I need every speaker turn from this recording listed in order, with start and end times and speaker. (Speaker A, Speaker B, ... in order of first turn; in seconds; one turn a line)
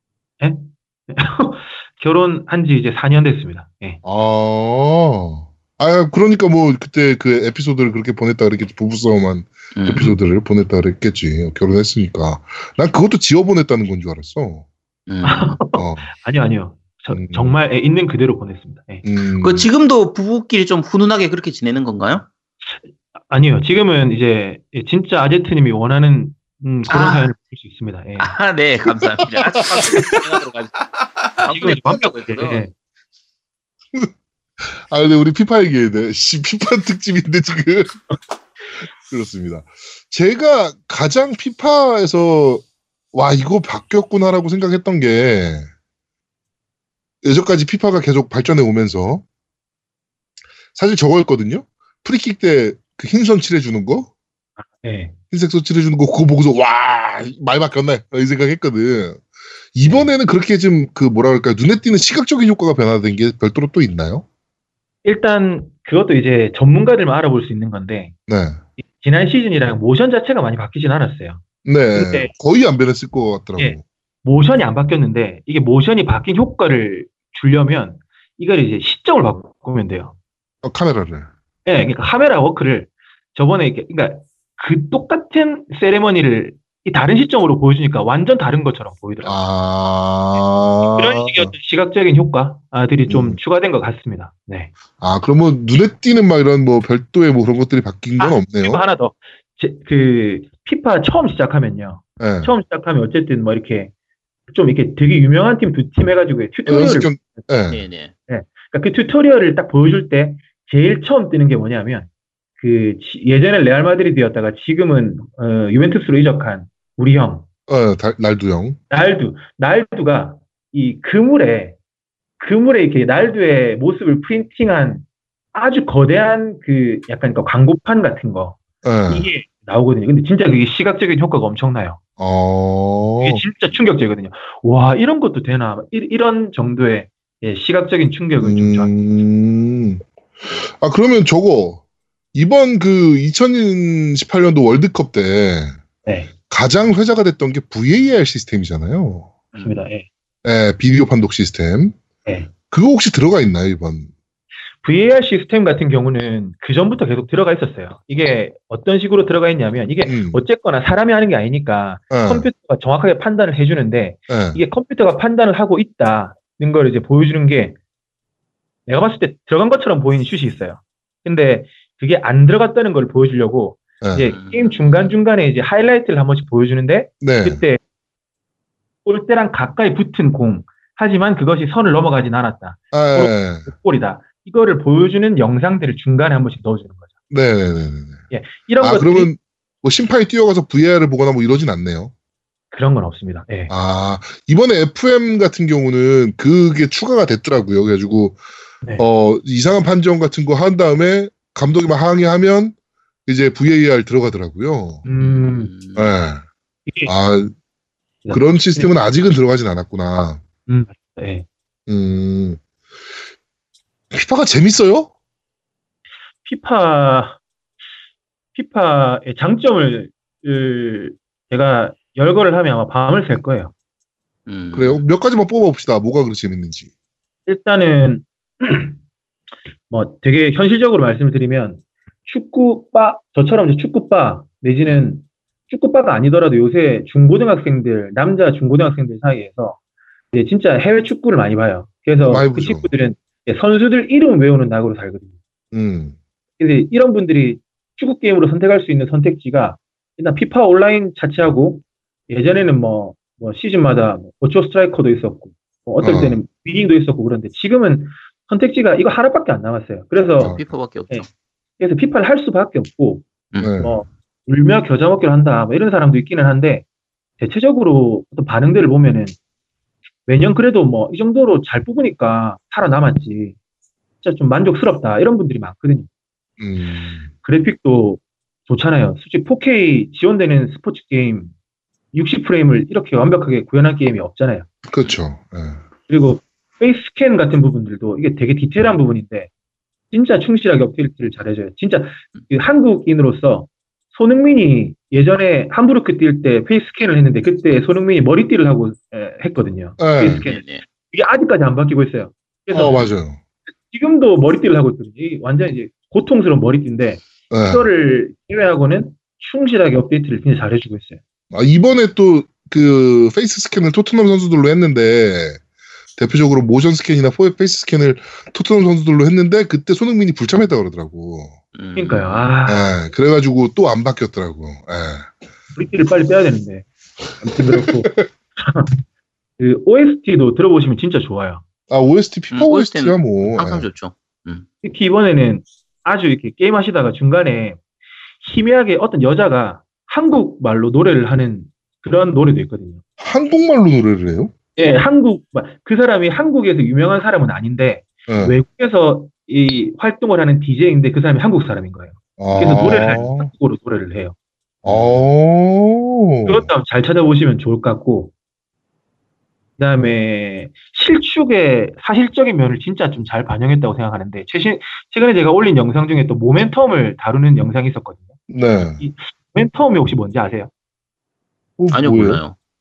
Speaker A: 0.4-4.0
Speaker B: 4.0-14.6
Speaker C: 9.7-10.2
Speaker C: 15.1-15.6
Speaker A: 15.2-19.0
Speaker B: 15.7-16.1
Speaker B: 17.1-17.6
Speaker B: 19.0-19.7
Speaker C: 19.4-22.2
Speaker A: 23.3-28.4
Speaker C: 26.9-27.3
Speaker C: 28.2-32.6
Speaker A: 31.4-32.7
Speaker B: 34.6-38.0
Speaker B: 39.1-45.7
Speaker B: 47.2-49.2
Speaker B: 50.7-54.1
Speaker A: 54.6-55.1
Speaker B: 55.3-59.2
Speaker B: 59.7-64.2
Speaker A: 65.0-68.1
Speaker B: 68.3-68.6
Speaker A: 68.8-71.4
Speaker B: 71.6-73.8
Speaker A: 71.9-72.3
Speaker A: 73.6-80.1
Speaker B: 80.6-81.3
Speaker A: 81.7-89.3
Speaker B: 89.2-91.5
Speaker A: 91.0-94.7
Speaker B: 93.1-93.4
Speaker B: 95.0-98.8
Speaker A: 98.2-103.9
Speaker B: 102.2-102.5
Speaker A: 104.5-107.3
Speaker B: 106.6-107.8
Speaker C: 107.7-108.1
Speaker A: 108.3-117.5
Speaker B: 117.7-118.8
Speaker A: 118.9-121.8
Speaker A: 122.4-132.0
Speaker B: 128.8-129.3
Speaker B: 132.2-133.4
Speaker A: 133.2-138.9
Speaker B: 138.4-140.0
Speaker B: 140.5-141.8
Speaker B: 142.3-145.8
Speaker A: 146.1-146.3
Speaker B: 146.5-149.3
Speaker C: 149.5-149.8
Speaker A: 149.6-150.1
Speaker B: 150.4-151.9
Speaker A: 152.2-152.5
Speaker B: 152.7-154.1
Speaker A: 154.8-167.8
Speaker B: 160.0-160.4
Speaker B: 162.1-162.5
Speaker B: 164.3-164.6
Speaker A: 168.9-177.8
Speaker B: 174.0-174.3
Speaker C: 174.2-175.1
Speaker B: 177.2-177.6
Speaker A: 179.0-187.1
Speaker B: 182.9-183.7
Speaker B: 187.3-188.2
Speaker A: 188.3-189.3
Speaker B: 188.8-192.1
Speaker A: 192.7-193.7
Speaker B: 193.7-198.4
Speaker B: 199.0-202.7
Speaker B: 203.2-205.0
Speaker A: 205.0-205.7
Speaker C: 205.2-206.1
Speaker B: 205.9-206.4
Speaker B: 207.1-207.5
Speaker A: 208.2-208.9
Speaker B: 208.3-210.4
Speaker A: 210.7-211.4
Speaker B: 211.9-212.6
Speaker B: 214.1-215.1
Speaker A: 216.4-217.4
Speaker A: 218.5-223.7
Speaker C: 224.5-225.0
Speaker B: 224.7-226.9
Speaker A: 227.5-229.0
Speaker A: 229.9-239.8
Speaker A: 240.3-245.3
Speaker B: 242.2-242.9
Speaker B: 245.7-246.1
Speaker A: 246.6-260.6
Speaker B: 256.0-256.4
Speaker C: 260.4-261.3
Speaker A: 261.8-263.3
Speaker C: 263.5-263.8
Speaker B: 263.6-263.9
Speaker A: 263.8-266.8
Speaker A: 267.4-269.4
Speaker A: 270.3-273.5
Speaker A: 274.2-276.1
Speaker B: 276.6-277.3
Speaker A: 277.4-281.5
Speaker A: 282.1-284.7
Speaker B: 284.9-285.8
Speaker A: 286.1-289.5
Speaker A: 290.1-303.1
Speaker B: 300.0-300.4
Speaker C: 300.2-300.8
Speaker B: 302.7-303.4
Speaker A: 303.9-311.2
Speaker B: 307.5-307.9
Speaker B: 311.5-315.6
Speaker B: 316.2-321.5
Speaker C: 321.7-322.5
Speaker A: 322.0-322.9
Speaker B: 322.6-325.3
Speaker A: 325.8-326.9
Speaker A: 327.4-328.9
Speaker B: 327.4-328.3
Speaker A: 329.6-331.6
Speaker B: 331.9-333.9
Speaker C: 332.5-334.6
Speaker A: 334.8-337.8
Speaker A: 338.4-343.0
Speaker B: 343.2-344.5
Speaker A: 344.8-354.3
Speaker B: 348.3-348.6
Speaker B: 352.4-353.5
Speaker B: 354.8-356.7
Speaker C: 354.9-355.1
Speaker A: 356.4-358.3
Speaker A: 359.8-370.7
Speaker B: 368.5-369.0
Speaker B: 371.8-372.4
Speaker C: 371.9-372.5